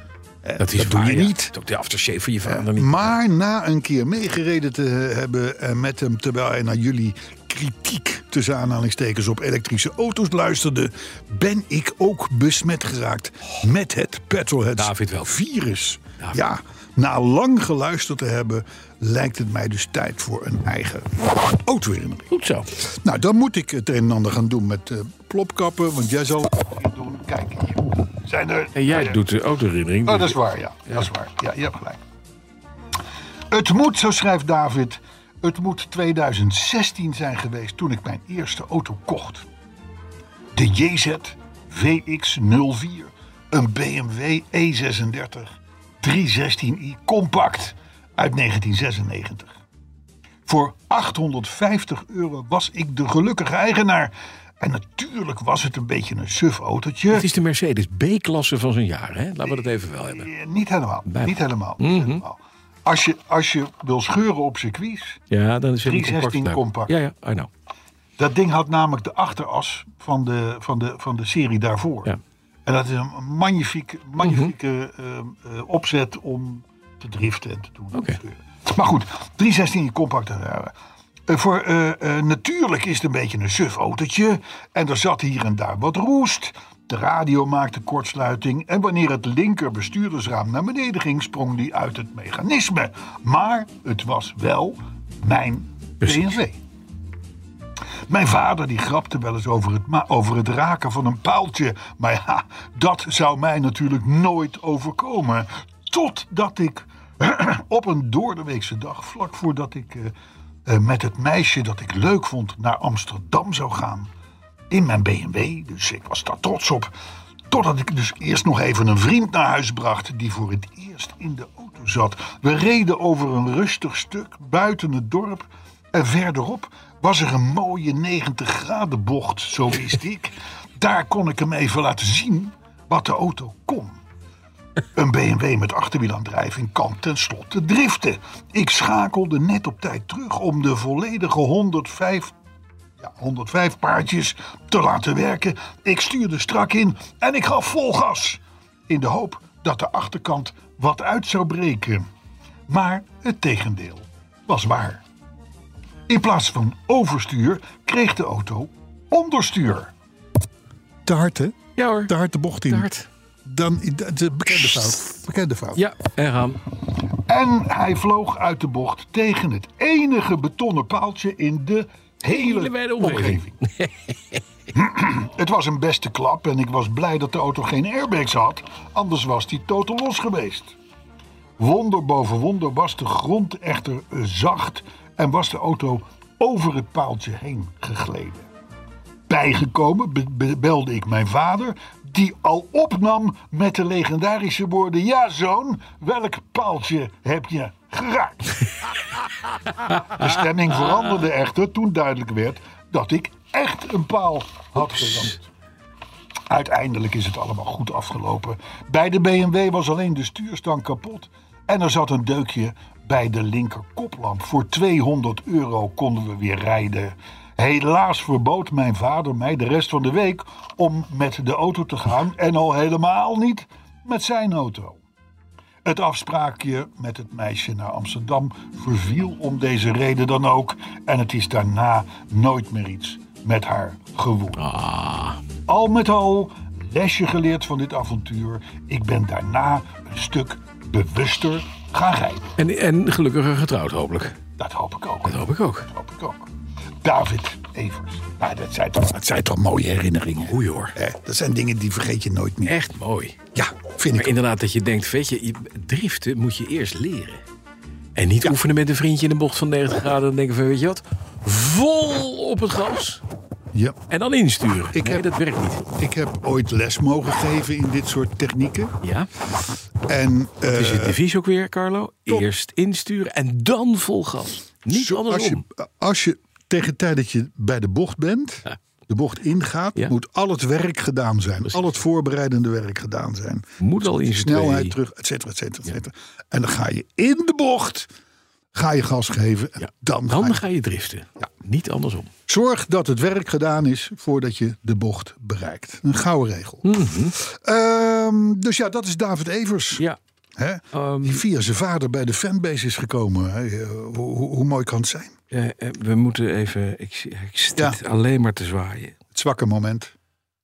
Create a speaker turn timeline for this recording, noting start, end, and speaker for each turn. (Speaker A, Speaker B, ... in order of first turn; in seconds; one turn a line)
Speaker A: 0.4-1.5
Speaker B: 0.6-3.1
Speaker A: 2.4-29.2
Speaker B: 14.8-15.3
Speaker B: 22.3-22.7
Speaker B: 28.7-31.1
Speaker A: 30.1-32.0
Speaker A: 33.5-39.5
Speaker A: 40.5-49.6
Speaker A: 50.5-57.3
Speaker B: 57.1-60.3
Speaker A: 59.4-65.2
Speaker B: 61.0-62.2
Speaker B: 65.3-67.5
Speaker A: 65.8-66.9
Speaker A: 68.2-72.1
Speaker A: 72.6-80.7
Speaker B: 74.2-74.5
Speaker B: 77.9-78.2
Speaker A: 81.3-96.6
Speaker B: 96.0-96.3
Speaker A: 98.1-110.1
Speaker A: 110.7-114.1
Speaker A: 114.7-116.9
Speaker A: 117.5-134.0
Speaker A: 134.9-142.3
Speaker A: 143.0-152.1
Speaker A: 152.7-155.0
Speaker A: 156.1-159.9
Speaker A: 161.1-162.9
Speaker B: 161.8-162.1
Speaker B: 162.7-163.1
Speaker A: 163.4-165.8
Speaker B: 165.7-166.6
Speaker A: 167.2-173.6
Speaker B: 172.2-174.4
Speaker A: 174.7-180.7
Speaker A: 181.6-188.5
Speaker A: 189.3-198.9
Speaker A: 199.9-205.4
Speaker A: 206.5-225.0
Speaker A: 225.8-234.6
Speaker B: 234.5-235.4
Speaker A: 235.7-242.5
Speaker B: 242.6-244.4
Speaker A: 244.6-246.5
Speaker B: 245.2-245.9
Speaker A: 247.0-252.8
Speaker B: 250.4-250.9
Speaker B: 252.7-253.4
Speaker A: 253.5-254.3
Speaker B: 254.1-257.4
Speaker B: 258.1-263.2
Speaker A: 263.7-264.0
Speaker B: 264.1-265.8
Speaker A: 264.9-265.3
Speaker A: 265.9-268.9
Speaker B: 269.0-269.3
Speaker A: 270.0-271.2
Speaker B: 270.6-275.6
Speaker A: 274.9-288.1
Speaker B: 283.8-284.9
Speaker A: 288.7-290.6
Speaker B: 289.8-292.3
Speaker A: 292.5-300.0
Speaker B: 296.8-297.4
Speaker A: 300.6-305.4
Speaker B: 300.9-301.4
Speaker B: 305.5-309.1
Speaker A: 309.3-310.1